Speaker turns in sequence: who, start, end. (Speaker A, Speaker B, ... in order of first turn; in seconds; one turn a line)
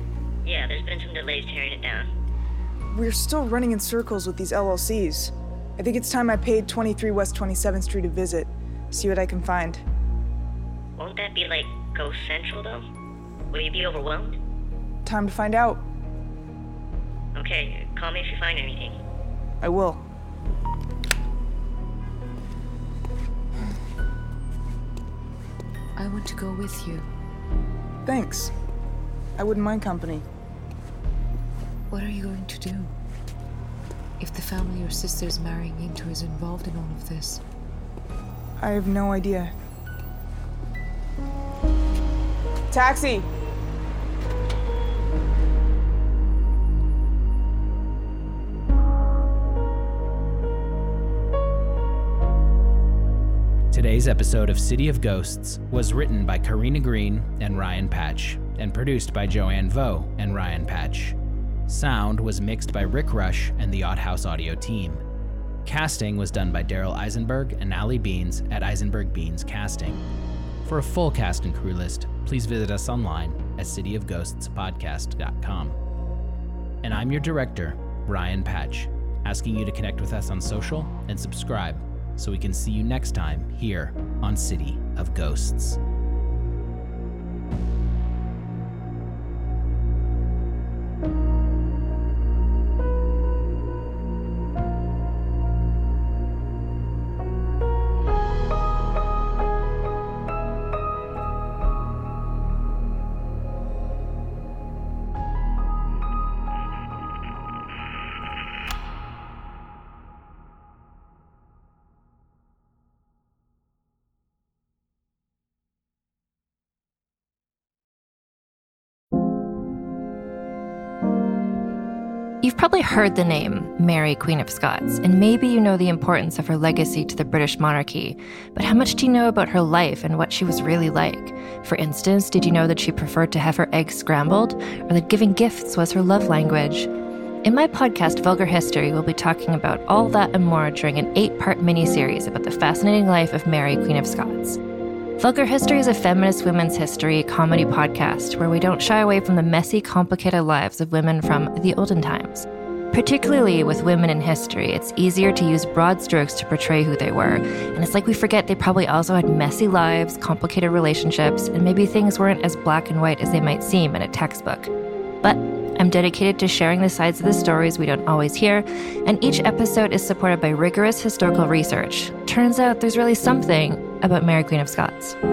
Speaker A: 0.4-2.1
Speaker B: 2.9-9.8
Speaker A: 11.0-12.8
Speaker A: 13.5-14.4
Speaker B: 15.0-15.8
Speaker A: 17.3-19.0
Speaker B: 19.6-20.0
Speaker C: 25.9-27.1
Speaker B: 28.1-28.5
Speaker B: 29.4-30.2
Speaker C: 31.9-32.9
Speaker C: 34.2-37.4
Speaker B: 38.6-39.5
Speaker B: 42.7-43.3
Speaker D: 53.7-61.1
Speaker D: 61.7-65.0
Speaker D: 65.6-70.0
Speaker D: 70.6-75.8
Speaker D: 76.8-85.8
Speaker E: 122.4-136.9
Speaker E: 137.4-144.6
Speaker E: 145.2-164.7
Speaker E: 165.2-175.2